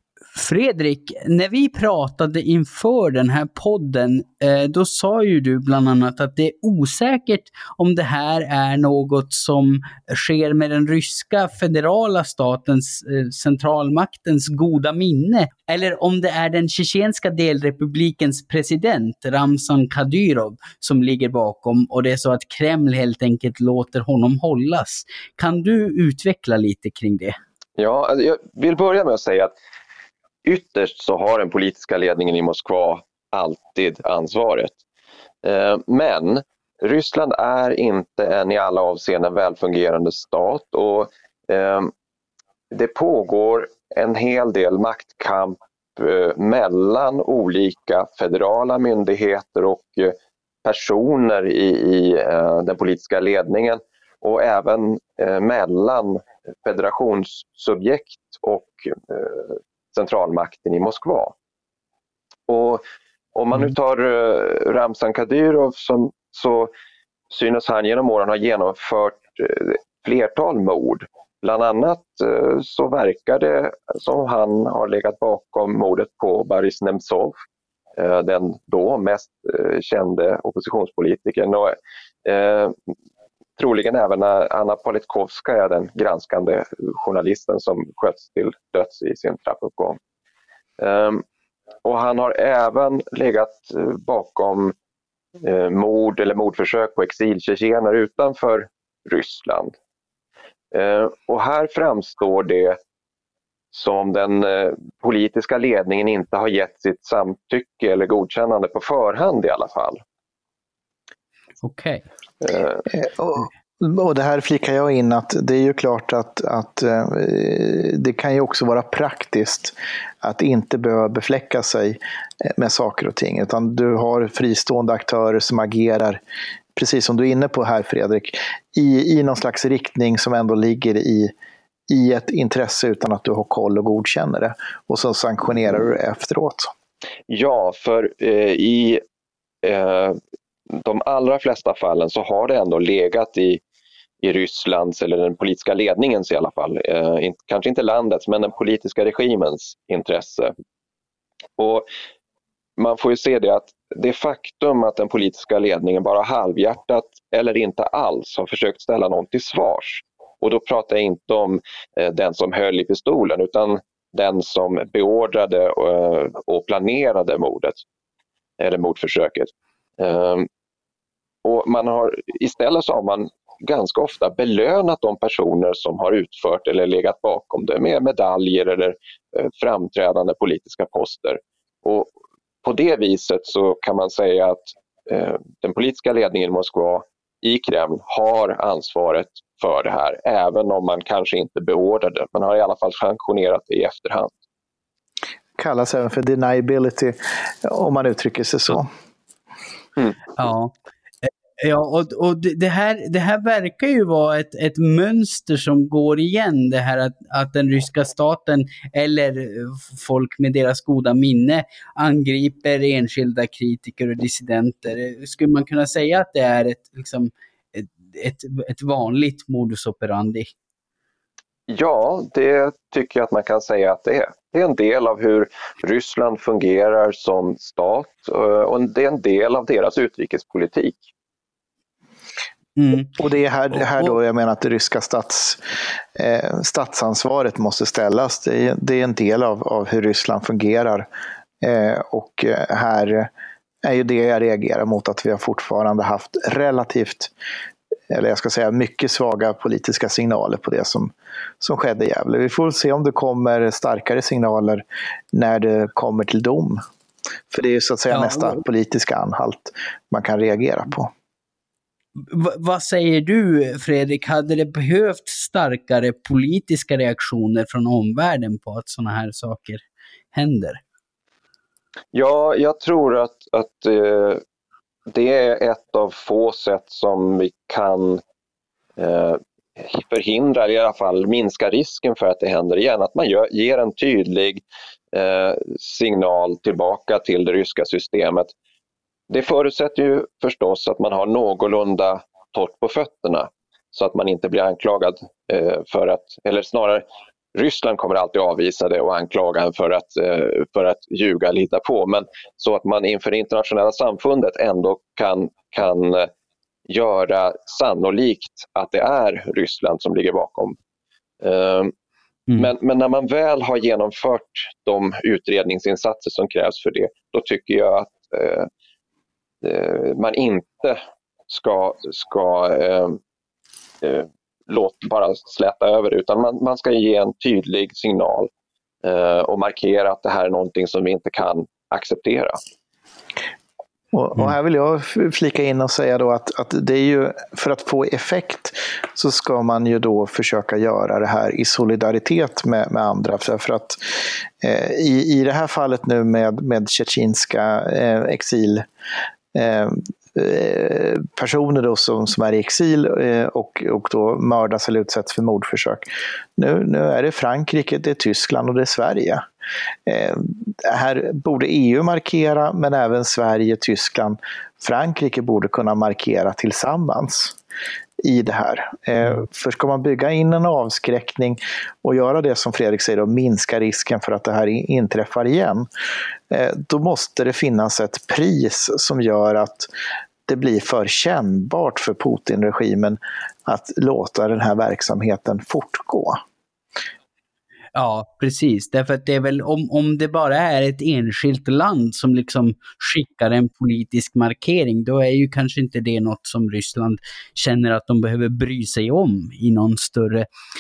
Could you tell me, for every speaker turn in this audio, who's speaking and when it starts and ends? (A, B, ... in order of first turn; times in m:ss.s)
0:00.4-0:27.4 A
0:27.8-0:29.5 B
0:30.4-0:34.8 B
0:35.4-0:41.9 B
0:42.7-1:01.4 B
1:02.5-1:02.8 B
1:03.4-1:06.7 B
1:07.3-1:17.4 B
1:18.0-1:22.8 B
1:23.6-1:30.0 B
1:30.8-1:31.2 B
1:31.8-1:34.7 B
1:35.4-1:39.8 B
1:40.7-1:42.8 B
1:43.7-1:50.0 B
1:51.6-1:52.1 A
1:52.4-1:52.8 B
1:52.9-2:06.2 C
2:06.8-2:11.3 C
2:11.9-2:16.7 C
2:17.3-2:19.0 B
2:19.6-2:20.2 B
2:20.7-2:23.6 B
2:24.2-2:30.5 B
2:31.6-2:31.9 B
2:32.8-2:47.8 B
2:48.6-2:50.5 B
2:51.4-3:02.1 B
3:02.6-3:14.3 B
3:15.6-3:18.9 C
3:20.4-3:40.5 A
3:41.7-3:51.0 B
3:52.8-3:53.1 A
3:53.2-3:55.6 C
3:56.2-4:01.1 C
4:01.6-4:03.3 C
4:03.8-4:07.3 C
4:08.1-4:16.8 C
4:17.5-4:21.1 C
4:18.1-4:18.6 A
4:22.2-4:30.8 A
4:32.1-4:34.4 B
4:35.1-4:38.2 B
4:39.0-4:44.6 B
4:45.1-4:48.5 B
4:49.3-4:57.0 B
4:57.6-5:06.3 B
5:06.9-5:10.8 B
5:11.4-5:11.9 B
5:12.6-5:18.7 B
5:19.6-5:23.2 B
5:24.0-5:28.5 B
5:29.0-5:32.6 B
5:34.1-5:48.9 C
5:49.5-5:59.5 C
6:00.1-6:07.6 C
6:08.2-6:15.9 C
6:16.5-6:19.9 C
6:20.5-6:26.4 C
6:28.0-6:40.5 A